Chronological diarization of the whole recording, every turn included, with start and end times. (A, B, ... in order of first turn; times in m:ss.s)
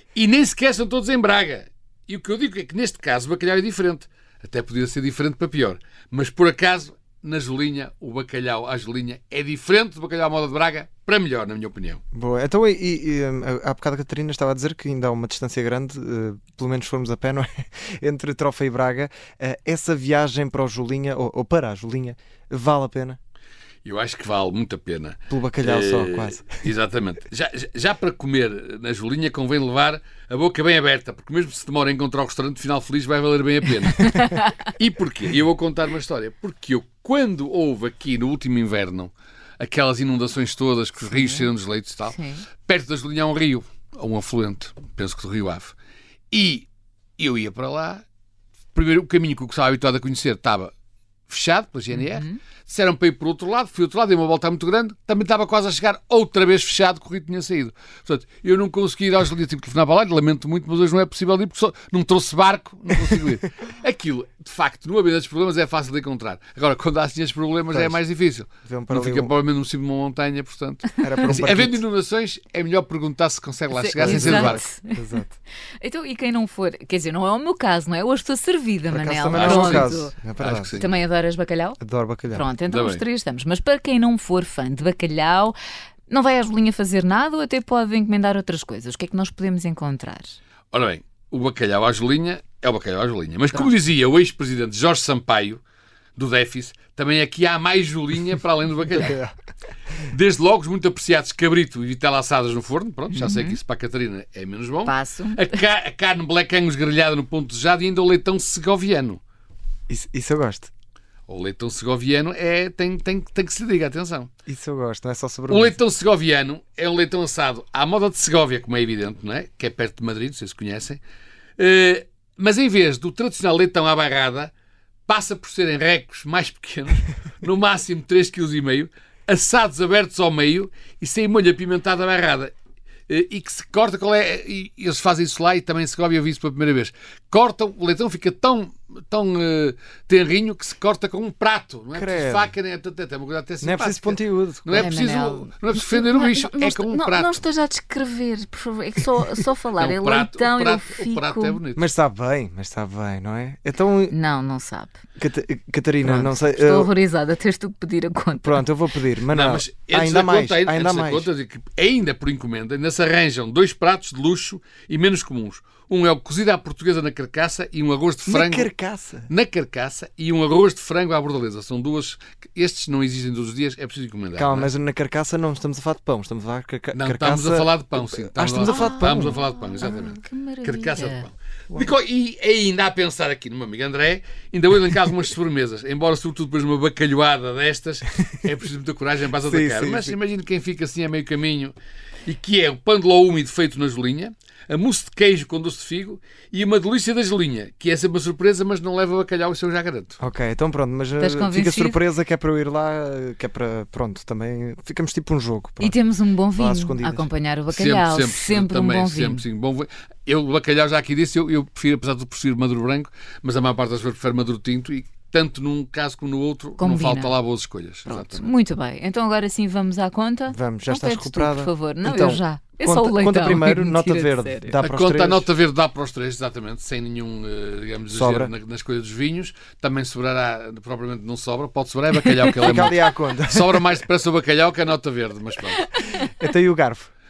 0:00.1-0:12.0 A
0:12.1-0:23.2 B
0:23.8-0:45.7 A
0:25.3-0:26.5 B
0:34.0-0:34.5 C
0:41.1-0:41.5 C
0:42.1-0:42.4 C
0:46.3-0:48.0 A
0:48.7-0:50.7 A
0:51.3-1:14.6 A
0:51.9-0:52.4 C
1:07.7-1:08.0 B
1:08.6-1:09.3 B
1:11.0-1:11.8 B
1:13.7-1:15.0 C
1:14.0-1:15.3 B
1:15.8-1:20.1 C
1:18.9-1:20.7 B
1:19.3-1:20.9 A
1:20.8-1:21.8 C
1:21.8-1:22.4 B
1:22.3-1:25.6 C
1:22.7-1:23.0 A
1:26.1-1:30.4 C
1:30.7-1:35.6 A
1:36.2-1:39.2 A
1:38.9-1:39.3 B
1:40.1-1:49.2 A
1:43.1-1:43.6 C
1:44.8-1:45.6 C
1:49.9-1:50.7 B
1:51.3-1:54.3 A
1:54.5-1:55.8 B
1:55.5-2:01.0 A
2:01.6-2:04.5 A
2:05.1-2:12.5 A
2:13.1-2:27.4 A
2:21.9-2:22.5 B
2:23.6-2:25.0 B
2:24.8-2:31.6 C
2:29.8-2:31.9 A
2:31.7-2:34.1 B
2:34.1-2:35.0 C
2:35.2-2:36.9 B
2:36.0-2:38.6 C
2:38.4-2:41.3 B
2:39.3-2:48.7 A
2:48.2-2:49.3 B
2:49.3-2:54.7 A
2:54.4-2:57.7 B
2:56.9-3:11.7 A
2:58.3-2:59.4 B
2:58.6-3:01.2 C
3:09.4-3:10.2 B
3:12.2-3:20.2 A
3:20.2-3:26.0 B
3:21.2-3:22.0 C
3:25.8-3:29.4 C
3:26.6-3:27.3 B
3:27.7-3:38.5 A
3:36.8-3:37.4 C
3:38.1-3:44.8 C
3:40.5-3:45.5 B
3:44.8-3:56.2 A
3:48.1-3:48.5 B
3:52.4-3:53.9 B
3:56.2-3:57.1 B